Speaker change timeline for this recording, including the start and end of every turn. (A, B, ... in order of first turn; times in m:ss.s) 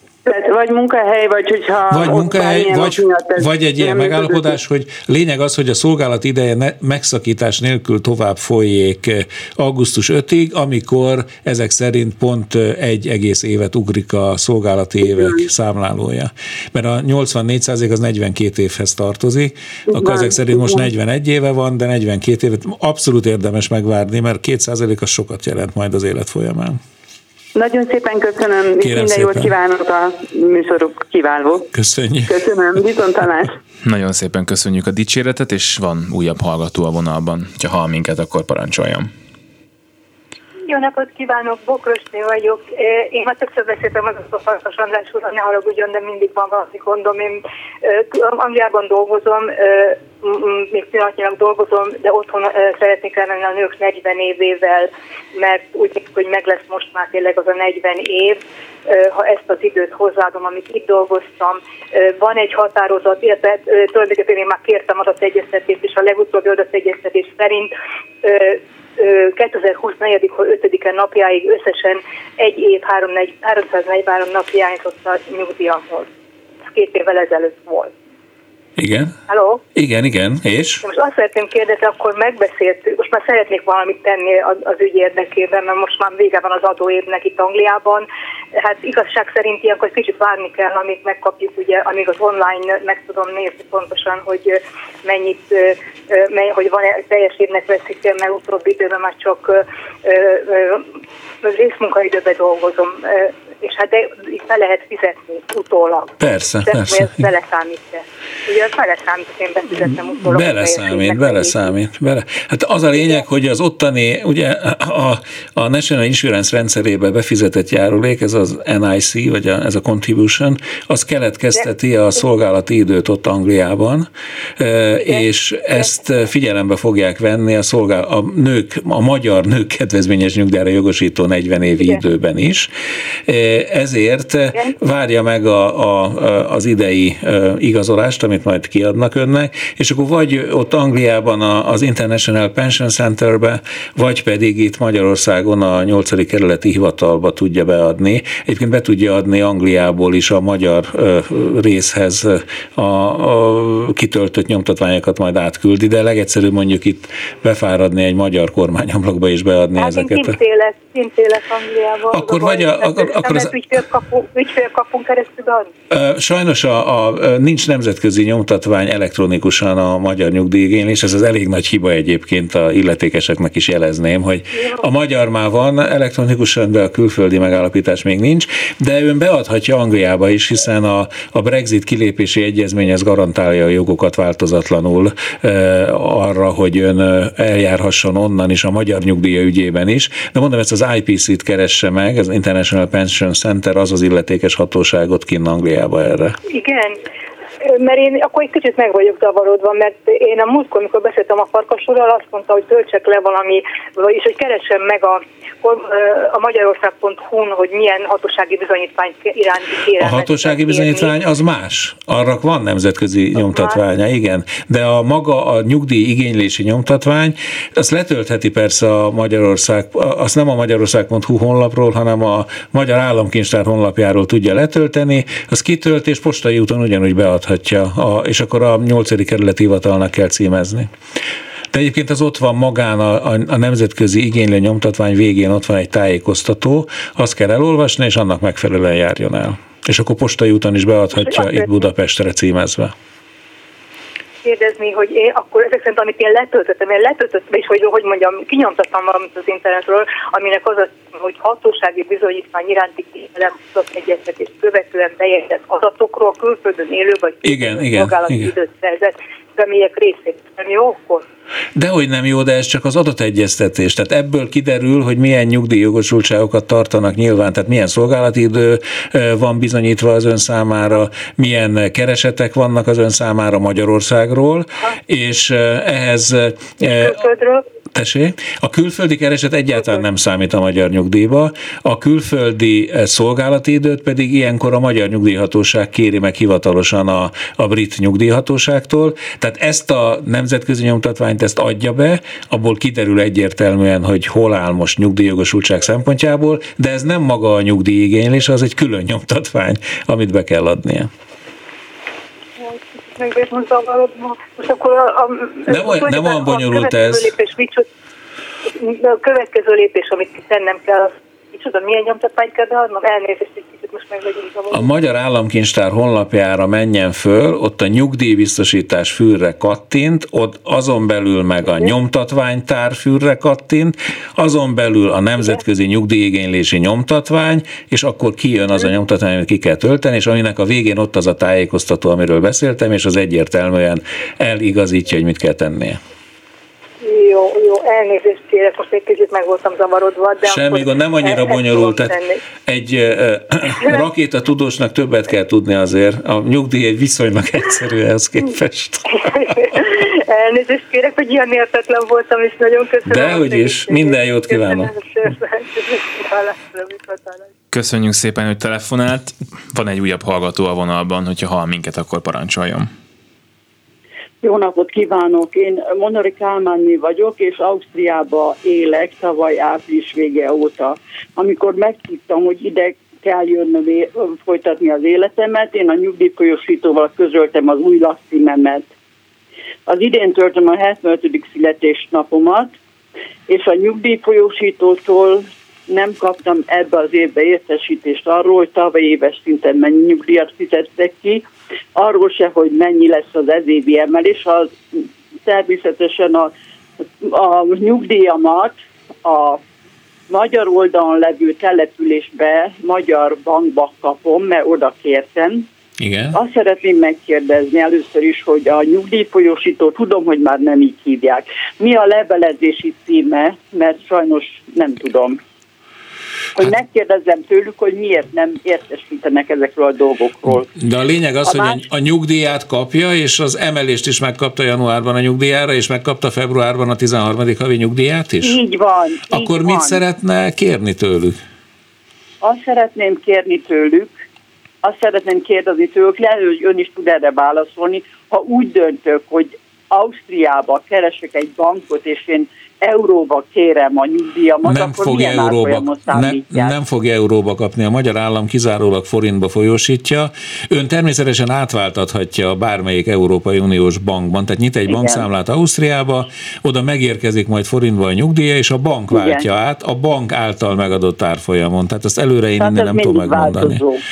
0:00.2-0:04.6 A
0:01.9-0:26.8 B
0:15.1-0:15.4 A
0:19.9-0:20.9 A
0:27.6-0:31.7 A
0:28.8-0:29.5 B
0:31.7-0:32.4 B
0:32.3-0:33.6 A
0:33.8-0:39.1 C
0:40.7-1:07.7 D
1:08.2-1:16.1 D
1:16.7-1:17.9 D
1:18.8-1:19.2 B
1:19.3-1:19.6 D
1:19.8-1:20.8 B
1:20.8-1:40.8 D
1:41.4-1:51.7 D
1:46.2-1:47.2 B
1:50.2-2:12.7 B
2:05.1-2:05.8 D
2:13.3-2:40.4 B
2:39.8-2:45.7 D
2:42.1-2:43.6 B
2:45.9-3:16.4 B
3:16.5-3:17.0 D
3:17.6-3:31.2 D
3:30.0-3:50.9 B
3:33.4-3:33.8 D
3:51.7-4:02.9 B
4:01.2-4:01.7 D
4:04.4-4:21.2 D
4:17.4-4:18.5 B
4:21.8-4:37.2 B
4:36.8-4:37.6 D
4:37.9-5:01.1 B
5:02.6-5:07.9 D
5:05.7-5:07.3 B
5:08.7-5:14.9 D
5:14.7-5:36.0 B
5:37.0-5:42.4 D
5:40.4-5:49.2 B
5:49.2-5:57.5 D
5:53.1-5:54.9 B
5:57.7-6:02.9 C
6:04.4-6:18.9 E
6:19.9-6:22.8 E
6:23.5-6:36.5 E
6:37.2-6:39.6 E
6:40.3-6:45.7 E
6:46.0-6:46.3 B
6:46.3-6:55.4 E
6:56.6-7:00.7 E
7:00.8-7:08.6 B
7:01.4-7:01.8 E
7:08.4-7:10.0 E
7:09.3-7:11.4 B
7:12.4-7:14.2 E
7:14.8-7:26.8 E
7:24.7-7:43.8 B
7:34.9-7:35.3 E
7:39.1-7:39.5 E
7:42.6-7:44.0 E